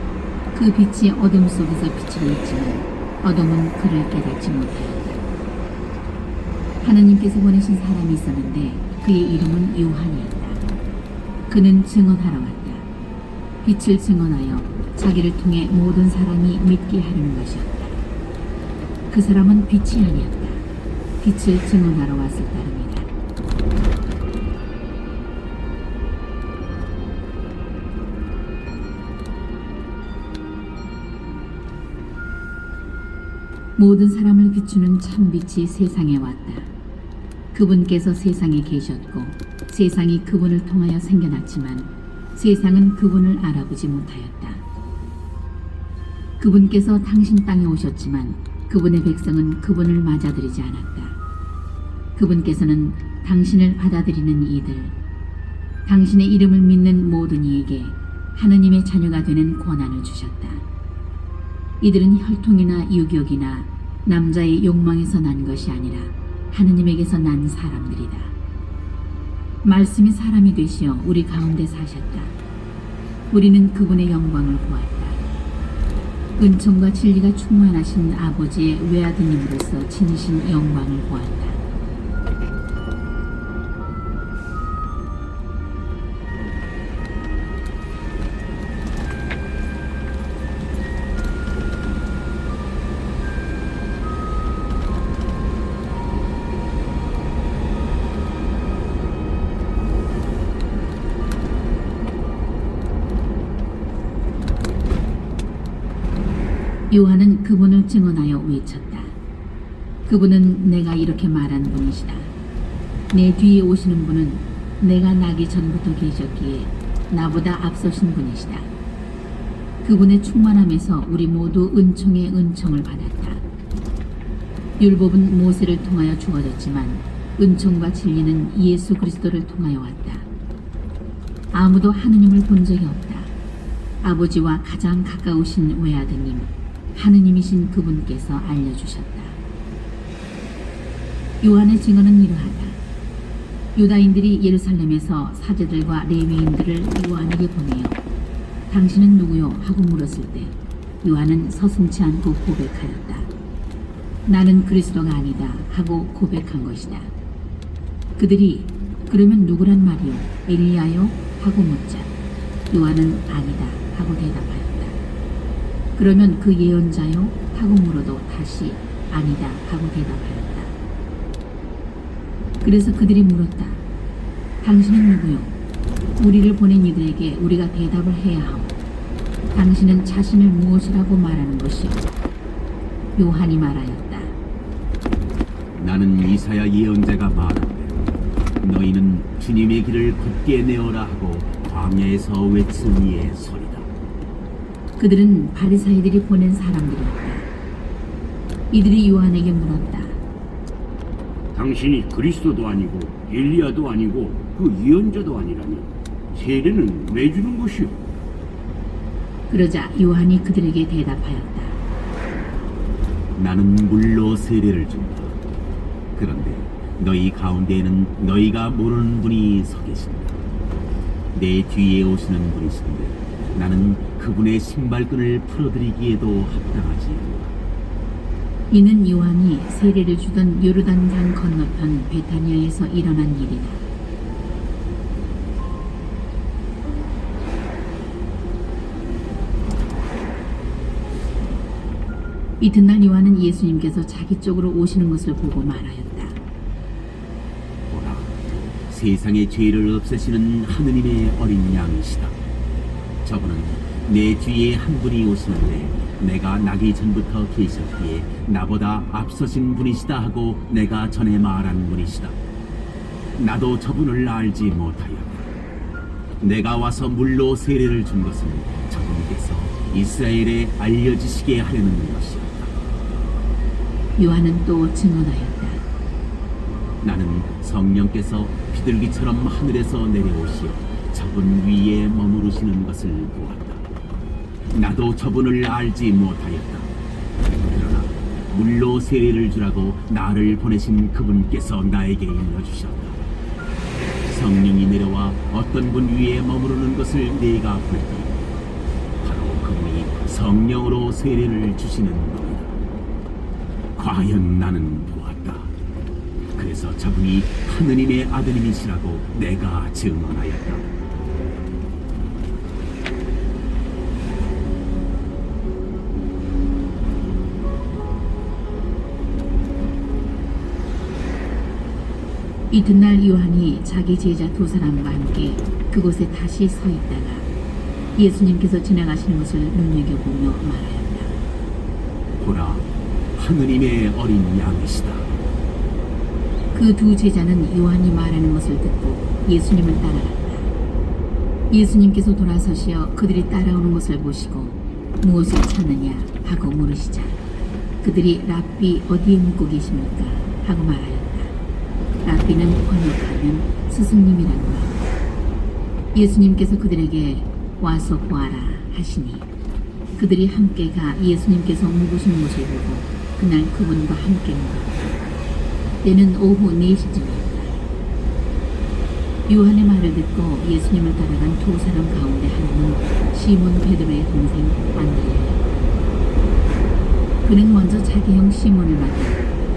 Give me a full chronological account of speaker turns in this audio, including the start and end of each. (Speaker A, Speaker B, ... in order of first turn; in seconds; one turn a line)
Speaker A: 0.5-5.2
Speaker A: 6.8-10.7
Speaker A: 11.5-12.9
Speaker A: 13.6-18.0
Speaker A: 19.1-20.7
Speaker A: 21.2-23.1
Speaker A: 33.8-36.7
Speaker A: 37.5-44.8
Speaker A: 46.4-51.2
Speaker A: 52.1-55.0
Speaker A: 55.8-60.6
Speaker A: 61.8-68.3
Speaker A: 69.6-72.3
Speaker A: 73.3-75.2
Speaker A: 76.4-81.6
Speaker A: 106.9-109.1
Speaker A: 110.0-112.3
Speaker A: 113.1-118.7
Speaker A: 119.8-123.4
Speaker A: 124.8-130.3
Speaker A: 131.5-133.3
Speaker A: 134.0-139.4
Speaker A: 141.4-142.8
Speaker A: 143.7-148.0
Speaker A: 148.7-153.3
Speaker A: 154.3-157.1
Speaker A: 158.2-162.1
Speaker A: 162.7-165.0
Speaker A: 166.0-170.7
Speaker A: 172.6-173.8
Speaker A: 174.6-175.6
Speaker A: 176.2-178.8
Speaker A: 179.5-182.0
Speaker A: 183.2-184.3
Speaker B: 185.7-193.9
Speaker A: 195.0-197.5
Speaker A: 198.7-200.2
Speaker C: 201.6-205.8
Speaker C: 206.4-207.9
Speaker B: 206.6-207.5
Speaker A: 209.5-211.8
Speaker B: 213.3-215.4
Speaker B: 216.2-220.4
Speaker B: 221.3-227.5
Speaker A: 228.7-233.8
Speaker A: 242.6-246.4
Speaker B: 247.9-252.4
Speaker B: 253.2-262.4
Speaker B: 263.4-265.5
Speaker B: 266.4-272.7
Speaker A: 274.1-275.8
Speaker B: 277.0-283.9
Speaker B: 284.7-286.9
Speaker B: 287.6-293.2
Speaker B: 294.2-298.3
Speaker B: 299.2-302.8
Speaker B: 303.9-305.7
Speaker B: 306.5-310.9
Speaker A: 322.7-327.5
Speaker A: 328.1-331.4
Speaker B: 332.4-335.3
Speaker A: 336.7-340.7
Speaker A: 341.7-347.4
Speaker A: 348.0-351.5
Speaker A: 352.2-355.0
Speaker A: 356.1-359.5
Speaker A: 360.1-365.1
Speaker A: 366.0-367.8
Speaker A: 369.5-375.6
Speaker A: 377.4-379.4